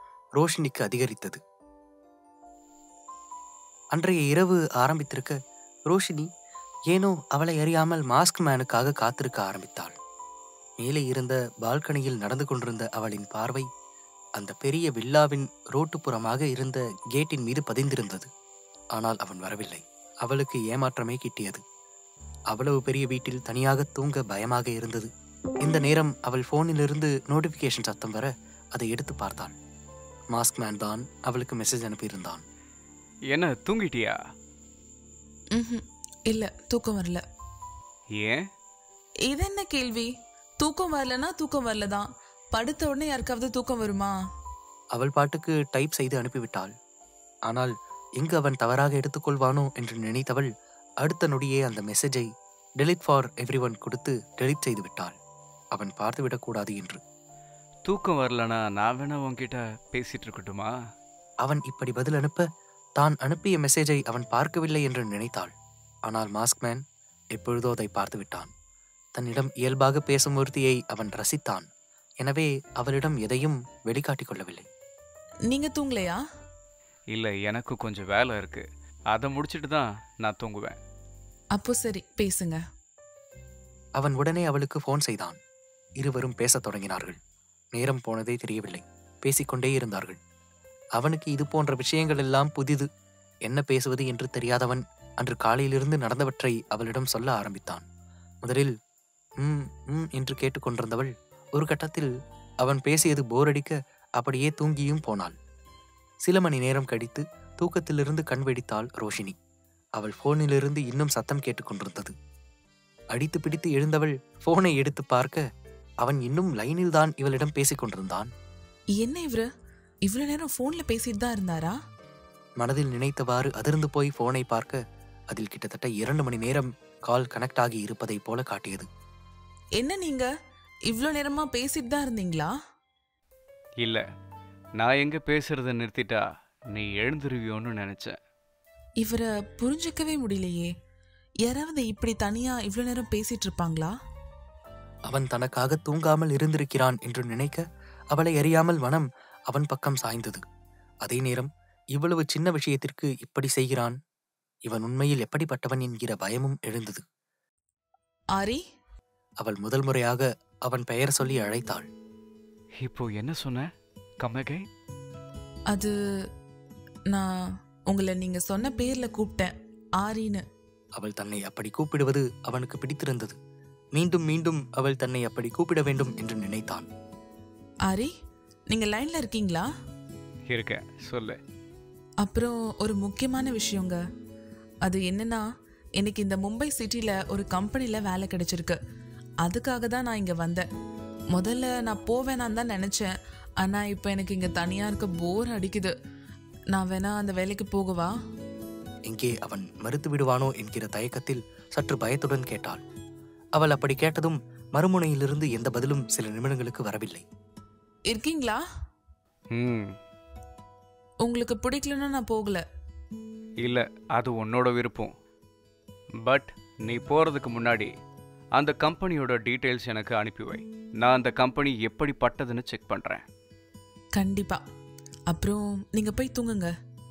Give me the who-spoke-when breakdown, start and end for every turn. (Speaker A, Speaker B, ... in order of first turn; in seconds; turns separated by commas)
Speaker A: 0.4-1.4, Speaker A: 3.9-5.3, Speaker A: 5.9-6.3, Speaker A: 6.9-9.9, Speaker A: 10.8-13.7, Speaker A: 14.4-18.3, Speaker A: 18.9-21.6, Speaker A: 22.5-25.1, Speaker A: 25.6-29.5, Speaker A: 30.3-32.4, Speaker B: 33.3-34.2, Speaker C: 35.5-37.2, Speaker C: 39.3-40.1, Speaker C: 40.6-44.1, Speaker A: 45.0-46.7, Speaker A: 47.5-50.5, Speaker A: 51.0-52.3, Speaker A: 52.8-55.2, Speaker A: 55.8-57.0, Speaker B: 57.9-60.7, Speaker A: 61.5-62.5, Speaker A: 63.0-65.5, Speaker A: 66.1-66.8, Speaker A: 67.3-68.5, Speaker A: 69.2-71.7, Speaker A: 72.2-74.7, Speaker C: 75.5-76.2, Speaker B: 77.1-80.8, Speaker C: 81.5-82.6, Speaker A: 84.0-85.4, Speaker A: 86.0-87.2, Speaker A: 87.8-90.2, Speaker A: 91.0-92.9, Speaker A: 93.5-97.8, Speaker A: 98.4-98.7, Speaker A: 99.4-102.1, Speaker A: 102.6-105.3, Speaker A: 106.2-109.4, Speaker A: 110.0-112.1, Speaker A: 113.1-115.4, Speaker A: 116.0-118.3, Speaker C: 119.0-119.5, Speaker C: 120.1-121.8, Speaker A: 122.6-124.8, Speaker A: 125.3-128.9, Speaker C: 129.8-130.3, Speaker C: 130.9-132.5, Speaker B: 134.8-138.2, Speaker C: 139.0-140.7, Speaker C: 141.4-143.9, Speaker A: 145.1-150.4, Speaker A: 151.0-153.9, Speaker A: 154.7-157.0, Speaker A: 159.4-161.9, Speaker B: 162.8-163.7, Speaker B: 164.2-164.6, Speaker C: 167.9-170.4, Speaker A: 171.0-173.3, Speaker A: 173.9-176.9, Speaker C: 178.7-179.7, Speaker B: 180.5-181.4, Speaker C: 182.2-184.0, Speaker C: 184.8-185.4, Speaker C: 186.0-188.8, Speaker C: 189.4-190.6, Speaker C: 191.3-193.1, Speaker C: 193.6-195.9, Speaker C: 196.7-198.1, Speaker A: 199.1-202.8, Speaker A: 203.6-207.2, Speaker C: 208.1-208.6, Speaker B: 209.5-209.9, Speaker C: 211.2-212.6, Speaker B: 213.6-215.1, Speaker B: 216.2-217.9, Speaker B: 218.6-223.2, Speaker C: 224.2-224.6, Speaker C: 225.3-226.7